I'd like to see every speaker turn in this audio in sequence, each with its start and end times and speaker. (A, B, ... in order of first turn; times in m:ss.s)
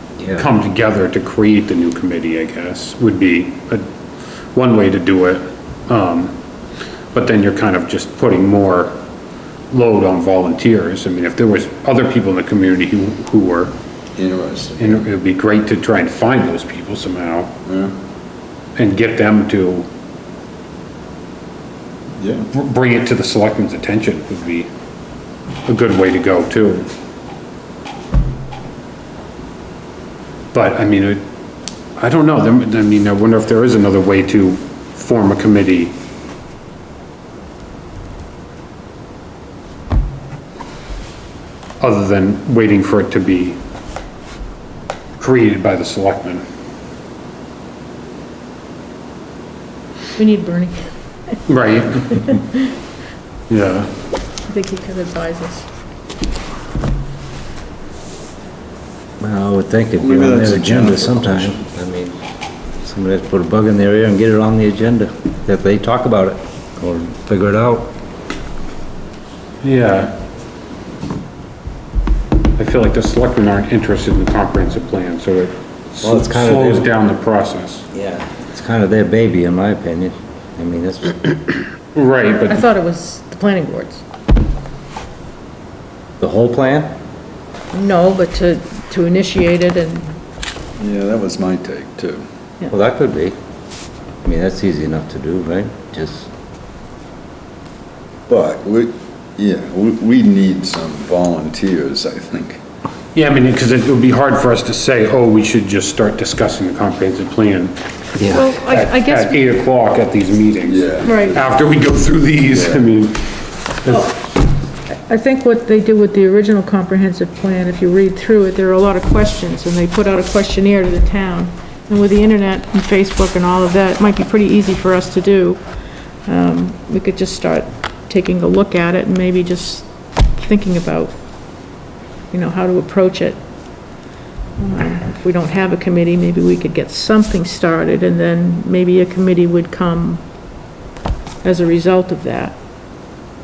0:00.2-0:00.4 A
0:00.4-0:03.8 B
0:04.5-0:06.4 B
0:07.1-0:09.0 B
0:09.7-0:13.8 B
0:14.2-0:15.0 C
0:14.8-0:17.5 B
0:17.6-0:17.9 C
0:18.8-0:19.9 B
0:22.2-0:22.5 C
0:22.5-0:24.7 B
0:25.6-0:26.9 B
0:30.5-0:31.2 B
0:32.0-0:36.0 B
0:41.8-0:43.6 B
0:45.2-0:46.4 B
0:50.2-0:50.8 D
0:51.5-0:52.3 B
0:52.2-0:52.6 D
0:53.5-0:53.9 B
0:54.5-0:55.7 D
0:59.2-1:02.1 A
1:00.0-1:01.6 C
1:02.8-1:07.9 A
1:09.6-1:10.2 B
1:12.6-1:17.8 B
1:16.0-1:16.9 A
1:17.9-1:21.4 A
1:21.9-1:22.6 B
1:22.2-1:24.0 D
1:26.2-1:26.9 A
1:27.7-1:30.1 D
1:30.8-1:32.2 C
1:32.7-1:33.4 A
1:34.2-1:36.3 A
1:38.3-1:42.6 C
1:43.1-1:47.8 B
1:48.2-1:48.4 A
1:48.3-1:49.4 D
1:48.4-1:54.1 B
1:50.6-1:51.6 C
1:51.0-1:51.4 D
1:52.5-1:52.8 C
1:53.9-1:54.2 D
1:54.9-2:05.6 D
2:06.2-2:11.2 D
2:12.3-2:13.4 D
2:14.6-2:20.2 D
2:21.4-2:22.6 D